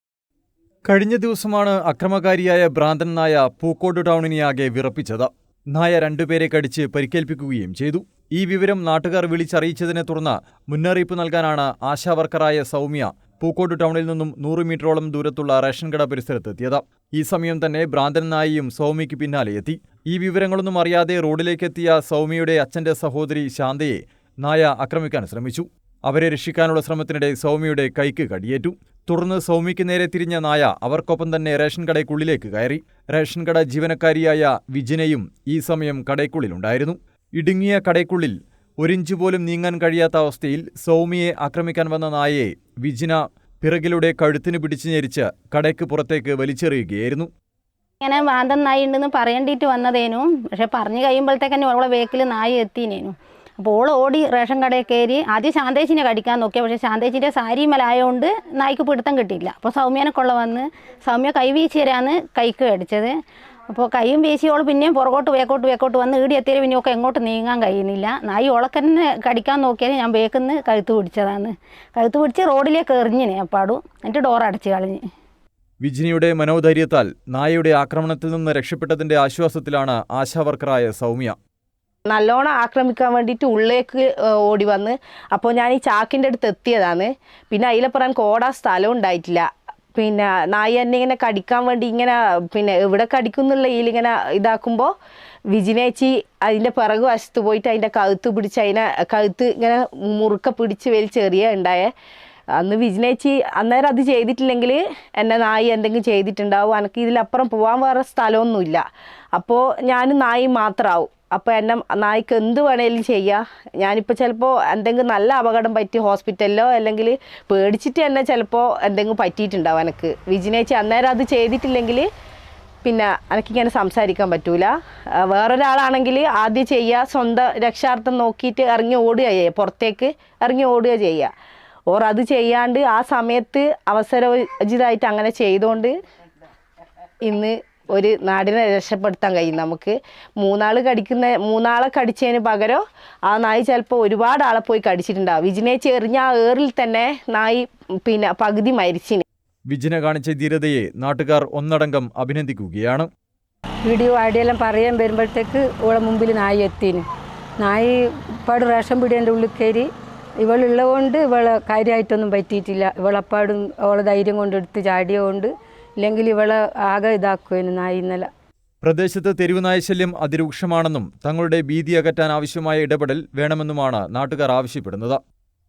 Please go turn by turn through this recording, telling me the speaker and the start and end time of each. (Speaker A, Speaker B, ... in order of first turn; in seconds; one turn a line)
Speaker A: 0.9-47.3
Speaker B: 48.0-63.1
Speaker B: 63.7-75.0
Speaker A: 75.8-81.4
Speaker C: 82.1-94.9
Speaker C: 95.5-101.9
Speaker C: 102.6-108.8
Speaker C: 109.3-122.1
Speaker C: 122.8-131.3
Speaker C: 131.9-136.0
Speaker C: 137.2-149.2
Speaker A: 149.7-153.1
Speaker D: 153.8-157.1
Speaker D: 157.6-159.9
Speaker D: 160.4-168.3
Speaker A: 168.8-175.2